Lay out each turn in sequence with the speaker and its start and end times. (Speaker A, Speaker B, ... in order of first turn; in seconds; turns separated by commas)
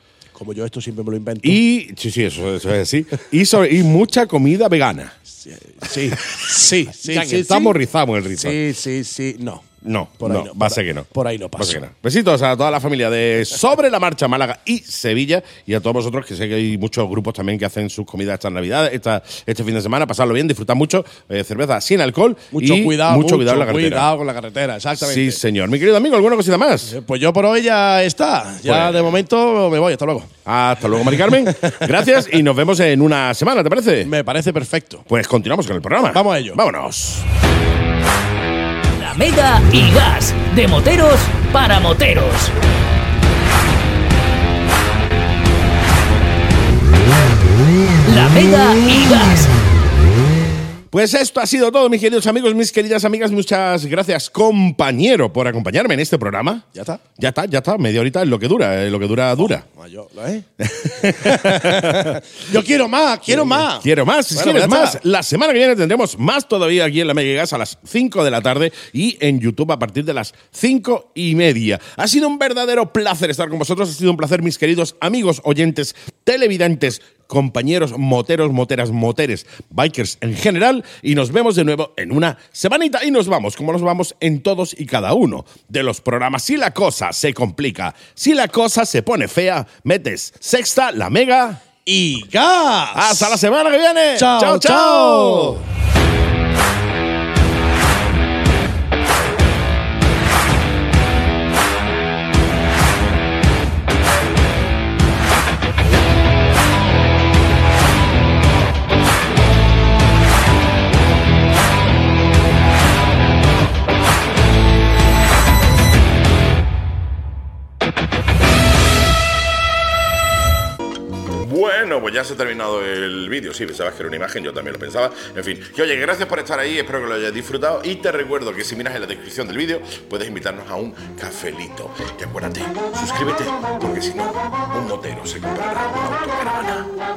Speaker A: 0.3-1.6, Speaker B: 1.4-5.2, Speaker A: 5.5-7.8, Speaker B: 7.0-8.6, Speaker A: 8.4-9.7, Speaker B: 9.8-24.1, Speaker A: 10.2-11.8, Speaker A: 22.5-25.4, Speaker B: 24.9-26.9, Speaker A: 26.9-30.3, Speaker B: 28.6-29.1, Speaker B: 30.5-34.1, Speaker A: 34.0-35.0, Speaker B: 35.1-37.2, Speaker A: 36.1-36.6, Speaker C: 38.9-42.5, Speaker C: 48.0-49.5, Speaker B: 50.9-56.7, Speaker A: 56.7-57.0, Speaker B: 57.2-59.6, Speaker A: 59.5-60.5, Speaker B: 60.6-62.2, Speaker A: 61.1-65.0, Speaker B: 63.3-91.6, Speaker A: 91.9-93.4, Speaker B: 93.0-95.6, Speaker A: 94.2-95.6, Speaker B: 121.3-136.9